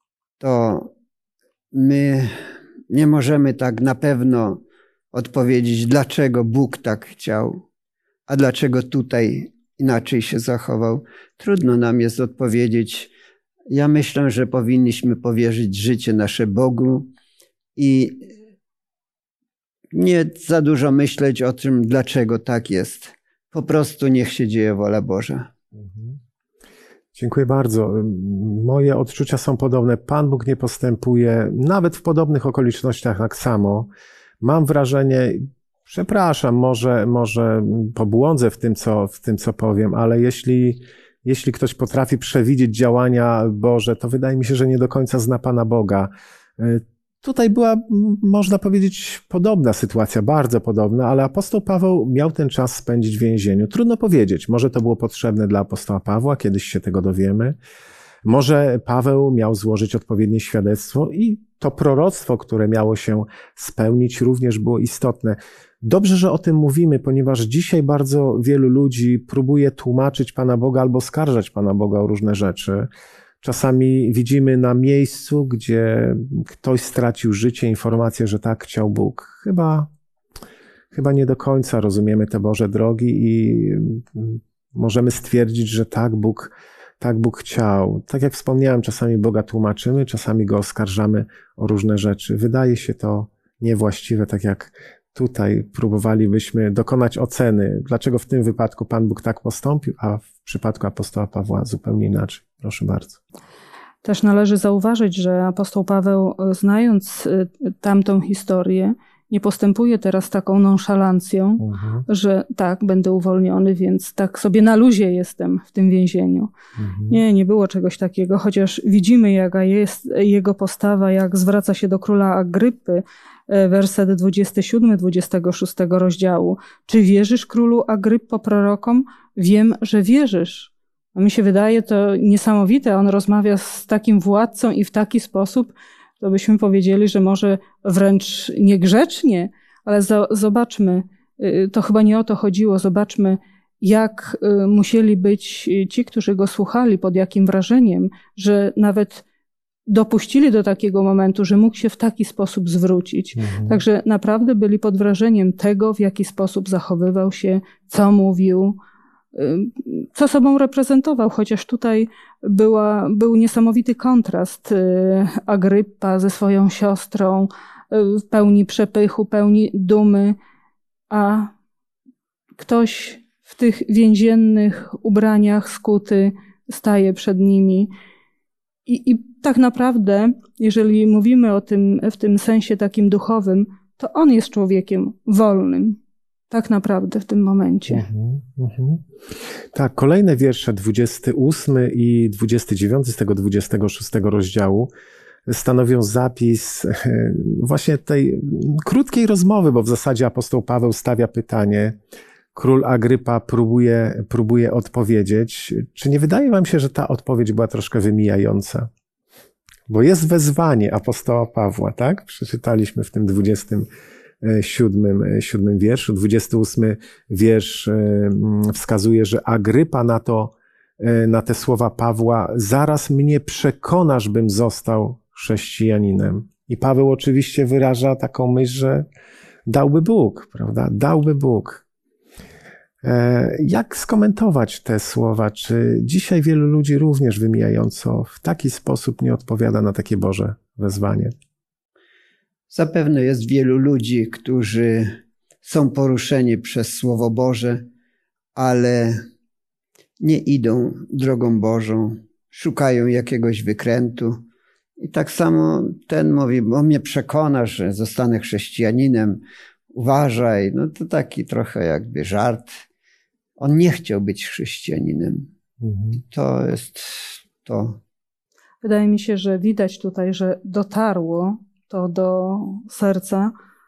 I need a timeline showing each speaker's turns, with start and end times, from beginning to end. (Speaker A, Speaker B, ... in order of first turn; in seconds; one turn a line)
Speaker A: 0.4-0.9
Speaker A: 1.7-2.3
Speaker A: 2.9-4.6
Speaker A: 5.1-7.6
Speaker A: 8.3-13.1
Speaker A: 13.7-17.1
Speaker A: 17.8-18.3
Speaker A: 19.9-25.5
Speaker B: 25.7-26.2
Speaker B: 27.1-33.9
Speaker B: 34.4-57.5
Speaker B: 58.2-72.9
Speaker B: 73.4-79.9
Speaker B: 80.9-103.2
Speaker C: 104.0-116.5
Speaker B: 111.6-112.0
Speaker B: 116.8-117.2
Speaker C: 117.1-149.2
Speaker C: 149.9-158.8
Speaker B: 153.3-153.8
Speaker C: 159.3-170.4
Speaker C: 171.1-171.5
Speaker C: 172.6-177.9
Speaker C: 178.9-186.0
Speaker C: 186.5-188.0
Speaker B: 187.9-194.9
Speaker B: 195.5-202.0
Speaker B: 202.5-208.9
Speaker B: 209.9-213.9
Speaker B: 214.4-229.1
Speaker B: 229.7-231.8
Speaker B: 233.0-241.3
Speaker A: 242.7-245.1
Speaker A: 245.6-247.8
Speaker A: 248.5-249.2
Speaker A: 250.2-254.4
Speaker A: 255.0-259.4
Speaker A: 259.9-262.8
Speaker A: 263.6-265.4
Speaker B: 265.8-266.2
Speaker A: 266.2-268.0
Speaker C: 268.8-273.5